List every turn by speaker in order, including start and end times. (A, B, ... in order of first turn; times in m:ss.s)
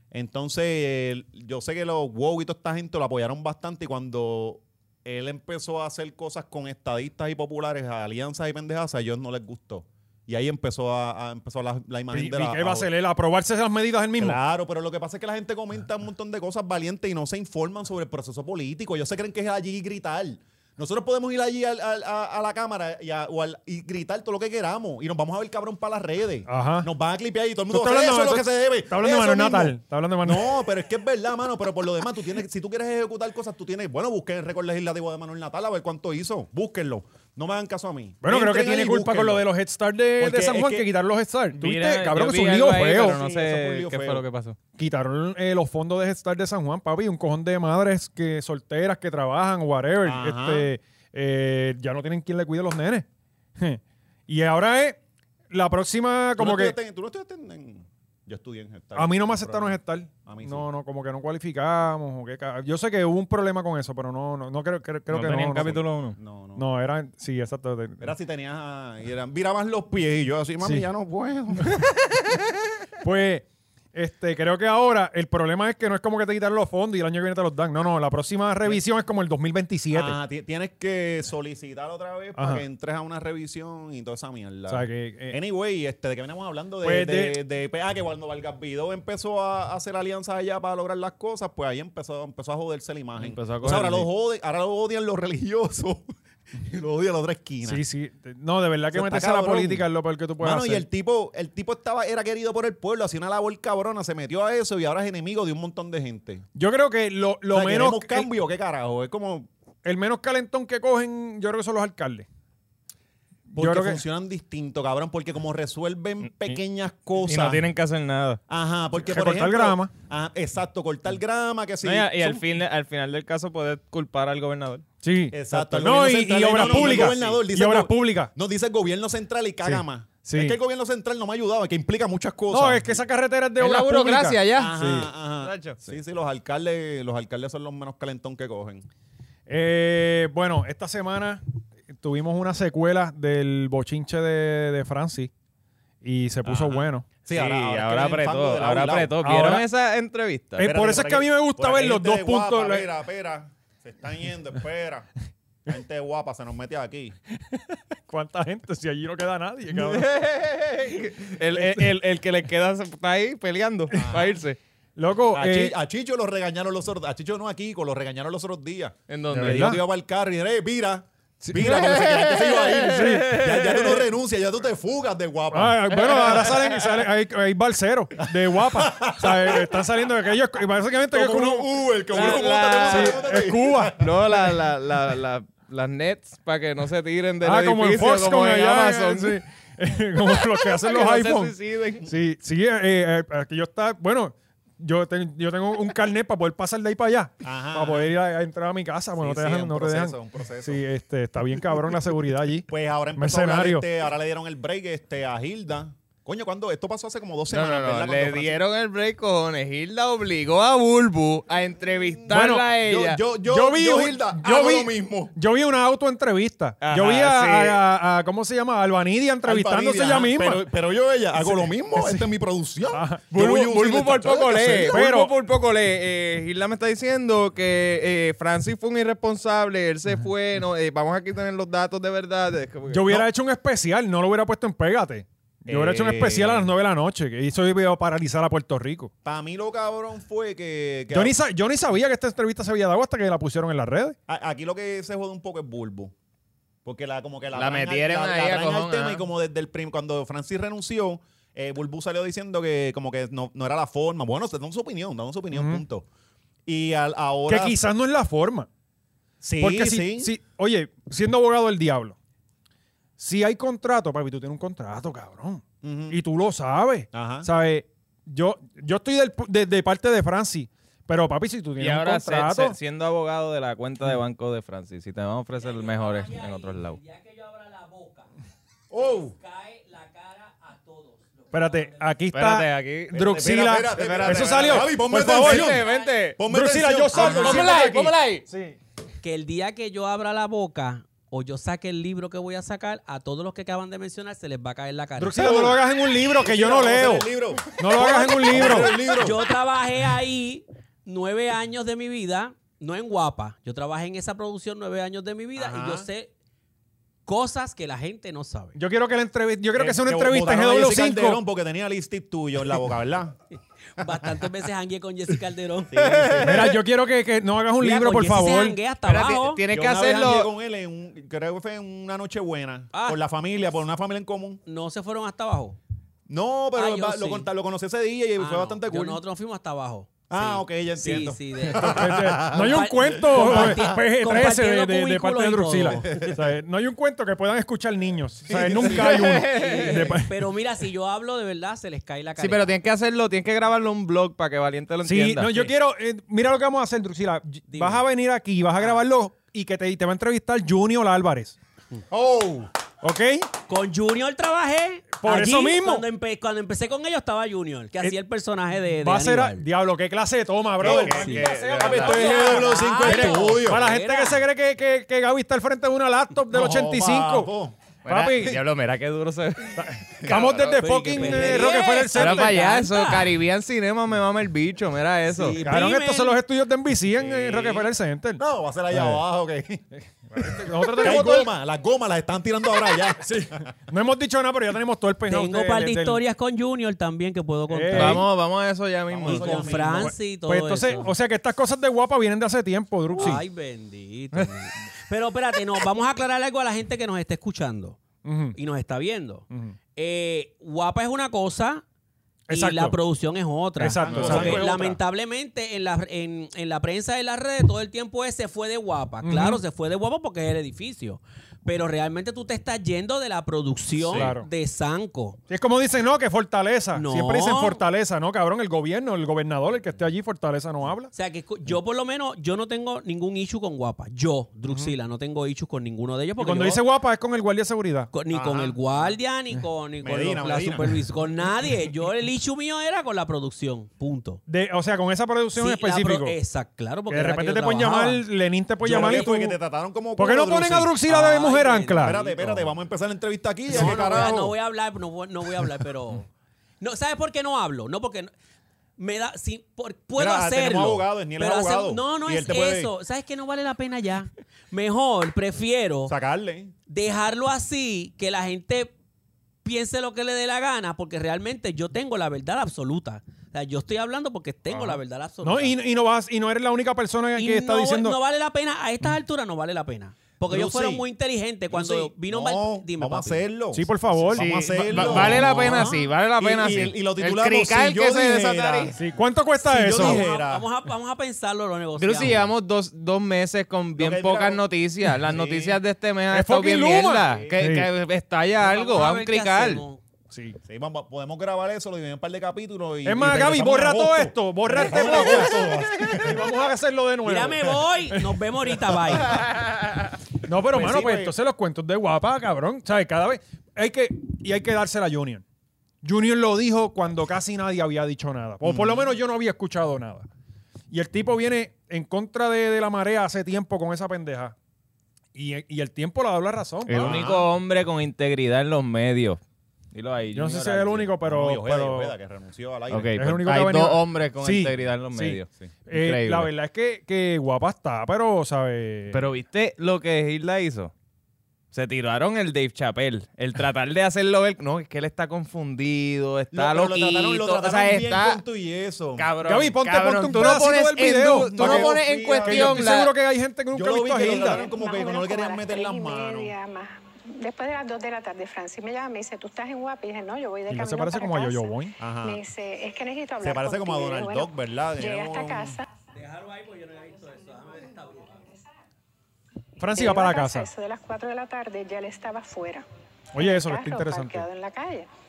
0:00.1-0:12.9 A
0:12.1-0:14.4 B
0:14.2-0:39.5 A
0:26.5-0:26.9 B
0:27.7-0:30.5 B
0:38.2-0:43.2 B
0:40.2-0:40.9 A
0:41.6-0:44.6 C
0:42.8-0:44.2 A
0:44.8-0:53.1 B
0:50.0-0:50.7 A
0:53.6-0:55.0 B
0:55.5-0:56.8 B
0:56.4-1:00.7 A
0:59.0-1:05.8 B
1:05.1-1:06.2 C
1:06.2-1:06.6 A
1:06.6-1:08.1 B
1:08.0-1:11.8 A
1:10.6-1:10.9 B
1:13.0-1:20.2 B
1:19.9-1:37.8 A
1:22.4-1:22.6 B
1:24.7-1:25.4 B
1:26.8-1:27.4 B
1:33.2-1:34.1 C
1:37.6-1:40.8 B
1:38.9-1:39.9 A
1:40.4-1:46.4 A
1:46.6-1:48.3 B
1:47.5-1:49.5 A
1:49.8-1:52.3 B
1:53.5-1:54.0 B
1:53.5-1:57.6 A
1:57.2-1:58.4 C
1:58.5-2:02.5 A
1:59.0-1:59.9 B
2:01.8-2:04.8 C
2:05.0-2:08.3 B
2:05.3-2:12.9 A
2:06.6-2:07.4 C
2:09.6-2:10.6 B
2:12.5-2:15.1 B
2:13.6-2:14.8 C
2:14.5-2:18.9 A
2:15.4-2:15.8 C
2:19.5-2:25.3 B
2:26.0-2:27.1 B
2:26.4-2:29.2 A
2:27.3-2:30.7 C
2:29.2-2:29.7 B
2:30.6-2:35.1 A
2:30.6-2:32.9 B
2:35.7-2:37.2 A
2:37.5-2:40.1 B
2:39.7-2:44.6 C
2:41.5-2:41.8 B
2:44.0-2:44.4 A
2:45.0-2:45.8 B
2:45.3-2:56.9 A
2:49.1-2:49.8 C
2:49.3-2:49.8 B
2:51.4-2:51.7 B
2:51.6-2:54.1 C
2:52.8-2:53.4 B
2:55.5-3:01.7 B
2:58.3-2:59.8 A
3:01.1-3:04.3 A
3:02.1-3:03.2 C
3:02.9-3:04.0 B
3:04.0-3:09.4 C
3:07.4-3:11.5 B
3:10.2-3:12.1 C
3:12.1-3:23.9 B
3:17.4-3:18.1 A
3:19.2-3:20.8 A
3:22.7-3:28.6 A
3:27.5-3:33.2 C
3:32.3-3:35.4 A
3:32.3-3:32.7 B
3:33.4-3:40.6 B
3:36.8-3:37.8 C
3:39.4-3:45.0 A
3:41.4-3:42.3 B
3:42.9-3:43.3 B
3:43.3-3:53.3 C
3:44.9-3:45.3 B
3:52.9-3:59.1 B
3:55.6-3:56.7 A
3:59.2-4:01.4 A
4:01.1-4:04.2 B
4:04.3-4:06.1 A
4:06.8-4:16.1 A
4:07.6-4:09.2 C
4:15.5-4:15.8 B
4:16.7-4:17.8 A
4:17.5-4:18.7 B
4:19.4-4:20.3 A
4:19.6-4:22.2 B
4:23.2-4:32.8 B
4:25.8-4:26.2 A
4:27.1-4:27.5 A
4:31.8-4:37.0 C
4:35.6-4:38.3 D
4:38.9-4:39.4 A
4:39.0-4:42.2 D
4:41.5-4:45.8 B
4:42.3-4:43.2 C
4:43.1-4:47.8 A
4:43.9-4:46.4 C
4:45.8-4:46.3 D
4:46.4-4:48.8 B
4:47.1-4:48.5 C
4:49.2-4:55.7 D
4:55.2-4:59.0 B
4:55.4-4:59.4 A
4:58.0-5:06.3 D
5:05.6-5:06.1 A
5:07.3-5:08.8 D
5:08.8-5:11.4 B
5:09.8-5:13.4 A
5:14.0-5:16.8 D
5:16.0-5:16.8 C
5:16.4-5:18.8 B
5:17.8-5:19.6 D
5:19.0-5:20.5 C
5:19.7-5:24.6 A
5:22.9-5:23.2 D
5:24.7-5:25.8 D
5:26.3-5:29.2 A
5:26.8-5:27.5 D
5:28.4-5:36.3 D
5:30.3-5:34.0 A
5:31.8-5:40.3 B
5:36.0-5:36.4 A
5:38.5-5:39.2 A
5:38.8-5:40.2 C
5:39.5-5:42.8 D
5:42.4-5:45.7 C
5:45.0-5:51.6 B
5:47.7-5:48.0 D
5:52.1-5:52.7 A
5:53.0-5:53.5 B
5:53.7-5:59.6 D
5:55.2-5:56.1 B
5:58.8-6:07.5 B
6:00.8-6:02.4 C
6:00.8-6:03.8 A
6:00.9-6:04.4 D
6:06.5-6:07.8 A
6:08.0-6:15.6 C
6:08.1-6:08.6 B
6:09.8-6:12.6 B
6:10.6-6:13.3 D
6:15.3-6:16.4 D
6:15.6-6:18.4 B
6:17.2-6:19.8 A
6:18.9-6:19.2 B
6:20.3-6:21.5 B
6:20.4-6:23.7 A
6:23.2-6:26.2 B
6:25.3-6:28.3 D
6:27.7-6:28.2 B
6:27.9-6:29.8 C
6:29.1-6:30.1 A
6:29.3-6:31.1 D
6:29.3-6:33.4 B
6:33.2-6:38.0 D
6:38.2-6:38.6 B
6:38.6-6:39.4 D
6:39.5-6:39.8 B
6:40.0-6:41.8 D
6:42.5-6:43.0 B
6:42.5-6:55.4 D
6:43.8-6:45.0 B
6:44.0-6:44.8 A
6:49.2-6:49.6 B
6:54.0-6:54.3 A
6:54.1-6:54.5 B
6:55.5-7:01.1 B
6:56.9-6:57.8 D
7:01.1-7:06.8 D
7:04.7-7:04.9 B
7:06.4-7:08.1 B
7:08.1-7:14.4 D
7:08.3-7:09.2 A
7:10.0-7:11.0 A
7:14.5-7:16.4 B
7:15.6-7:18.2 D
7:17.1-7:19.6 B
7:18.8-7:21.0 A
7:20.2-7:22.2 B
7:21.1-7:22.5 D
7:22.0-7:24.6 A
7:23.7-7:28.3 D
7:23.7-7:24.2 B
7:29.0-7:36.1 D
7:30.2-7:32.9 A
7:36.1-7:36.7 A
7:36.9-7:38.9 D
7:39.6-7:45.8 D
7:44.7-7:48.2 B
7:47.4-7:53.4 D
7:50.5-7:51.1 A
7:51.7-7:59.1 A
7:53.7-7:55.8 B
7:54.3-7:58.9 C
7:59.0-8:00.3 B
7:59.6-8:00.7 A
8:00.0-8:02.5 D
8:02.0-8:09.8 C
8:04.0-8:04.6 A
8:05.3-8:05.8 A
8:06.3-8:07.9 B
8:07.2-8:07.6 A
8:08.6-8:10.0 D
8:10.3-8:10.6 B
8:10.7-8:16.5 A
8:13.0-8:18.8 B
8:15.2-8:15.8 C
8:17.2-8:19.4 D
8:19.2-8:19.7 A
8:20.4-8:25.4 B
8:20.7-8:21.4 A
8:26.0-8:30.3 B
8:28.6-8:29.1 A
8:30.9-8:34.6 B
8:35.4-8:37.2 B
8:36.9-8:39.4 C
8:37.0-8:37.5 A
8:39.9-8:41.1 C
8:40.3-8:42.1 B
8:41.2-8:43.2 A
8:42.9-8:46.5 C
8:43.2-8:49.3 B
8:49.1-8:50.9 C
8:51.7-8:58.4 C
8:56.5-8:59.3 A
8:59.2-9:03.1 C
8:59.4-9:04.6 B
9:01.5-9:03.0 A
9:03.7-9:06.5 A
9:04.3-9:16.1 E
9:10.7-9:11.9 B
9:12.0-9:12.4 A
9:13.4-9:15.8 A
9:16.1-9:18.5 D
9:17.1-9:18.7 E
9:19.8-9:20.7 B
9:19.8-9:22.8 E
9:23.3-9:24.5 B
9:23.4-9:25.1 E